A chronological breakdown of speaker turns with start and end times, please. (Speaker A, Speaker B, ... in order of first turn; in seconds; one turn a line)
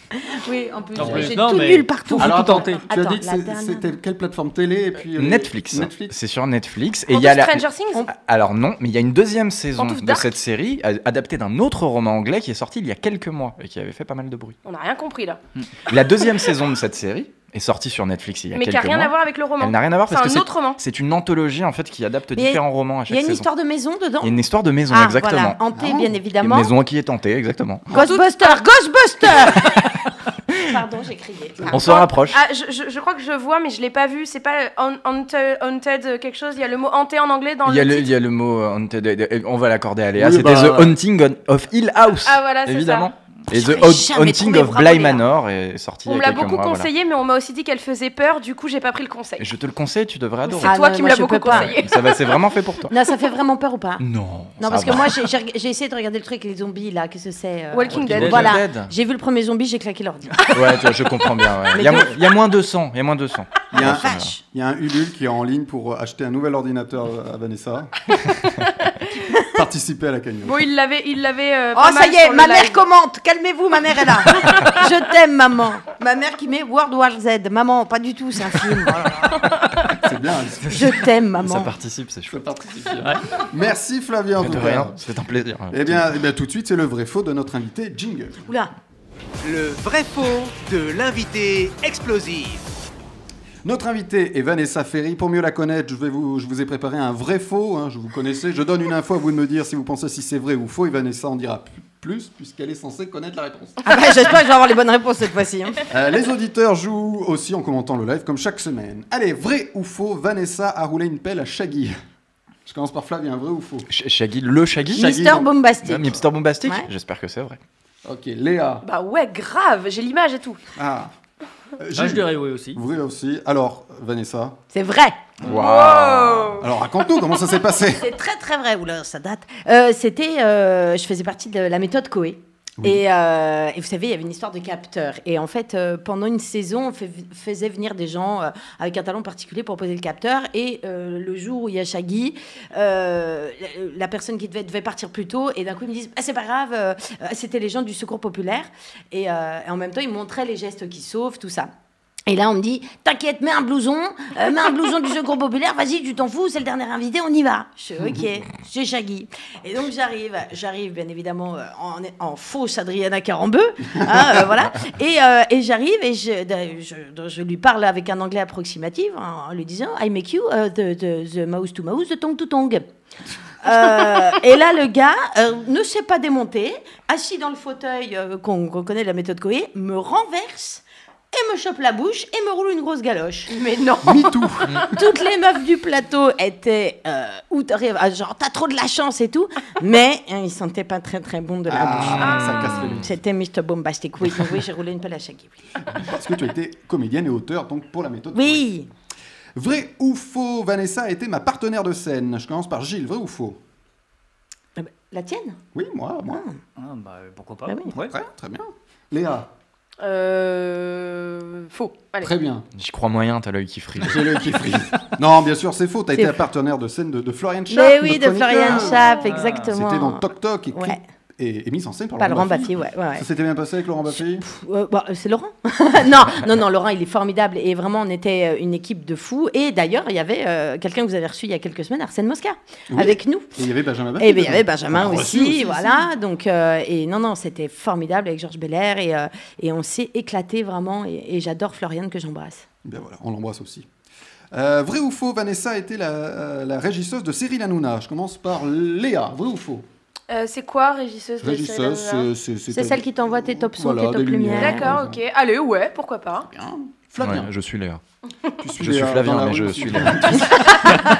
Speaker A: 0.1-3.9
Speaker B: 0.9-2.8
Speaker C: 1.0-1.3
Speaker C: 2.2-6.1
Speaker D: 5.1-14.6
Speaker E: 7.1-8.0
Speaker E: 9.8-10.3
Speaker E: 14.6-15.4
Speaker D: 15.9-23.5
Speaker E: 18.5-20.8
Speaker A: 22.3-26.7
Speaker D: 24.2-25.6
Speaker C: 25.7-26.1
Speaker D: 26.4-27.9
Speaker E: 27.9-28.6
Speaker A: 27.9-29.9
Speaker A: 30.6-31.9
Speaker C: 31.6-31.9
Speaker D: 31.7-32.4
Speaker E: 31.8-38.1
Speaker D: 37.6-46.9
Speaker C: 40.1-41.0
Speaker E: 42.2-43.1
Speaker A: 43.5-45.2
Speaker E: 46.0-49.5
Speaker D: 49.4-50.7
Speaker E: 50.4-52.4
Speaker A: 50.6-51.8
Speaker D: 51.5-52.9
Speaker A: 52.9-54.0
Speaker D: 54.0-55.3
Speaker A: 54.6-60.9
Speaker E: 57.7-58.6
Speaker D: 57.9-58.9
Speaker B: 58.1-58.4
Speaker D: 60.5-64.3
Speaker A: 61.7-62.2
Speaker C: 63.7-68.0
Speaker A: 63.7-64.4
Speaker C: 69.5-70.7
Speaker E: 70.4-72.8
Speaker A: 71.7-79.4
Speaker C: 80.0-80.9
Speaker A: 80.7-81.7
Speaker D: 81.4-82.4
Speaker C: 82.3-85.0
Speaker D: 84.4-86.0
Speaker C: 85.7-88.4
Speaker A: 88.5-88.7
Speaker F: 89.4-92.7
Speaker C: 93.6-103.8
Speaker A: 103.8-105.8
Speaker C: 105.9-112.0
Speaker C: 112.7-113.9
Speaker D: 113.9-115.1
Speaker C: 114.9-115.5
Speaker A: 114.9-116.8
Speaker D: 115.8-117.6
Speaker C: 118.0-118.8
Speaker E: 118.8-120.6
Speaker C: 120.8-121.1
Speaker C: 121.8-124.6
Speaker B: 122.0-122.8
Speaker A: 124.7-125.2
Speaker D: 125.4-126.6
Speaker E: 125.4-126.7
Speaker C: 126.6-128.1
Speaker A: 127.9-151.7
Speaker A: 152.3-172.8
Speaker A: 173.6-183.5
Speaker E: 183.5-184.4
Speaker C: 184.0-184.9
Speaker A: 184.9-195.6
Speaker C: 191.7-193.1
Speaker E: 192.2-192.8
Speaker C: 195.9-198.7
Speaker A: 198.3-198.9
Speaker C: 199.6-203.6
Speaker A: 204.8-205.6
Speaker C: 205.7-206.4
Speaker B: 206.8-208.1
Speaker A: 207.7-207.9
Speaker C: 207.9-209.5
Speaker E: 210.0-212.3
Speaker C: 212.2-212.7
Speaker D: 212.8-214.3
Speaker C: 214.0-224.4
Speaker A: 216.1-216.4
Speaker A: 217.7-221.0
Speaker B: 219.2-219.7
Speaker A: 222.2-223.2
Speaker A: 224.2-233.5
Speaker C: 232.9-236.1
Speaker A: 234.2-242.6
Speaker C: 242.8-243.9
Speaker C: 244.5-249.8
Speaker E: 250.3-252.3
Speaker C: 251.4-255.2
Speaker A: 252.7-254.9
Speaker E: 254.6-256.5
Speaker C: 256.5-257.5
Speaker D: 257.2-258.0
Speaker C: 258.6-261.0
Speaker D: 258.8-260.7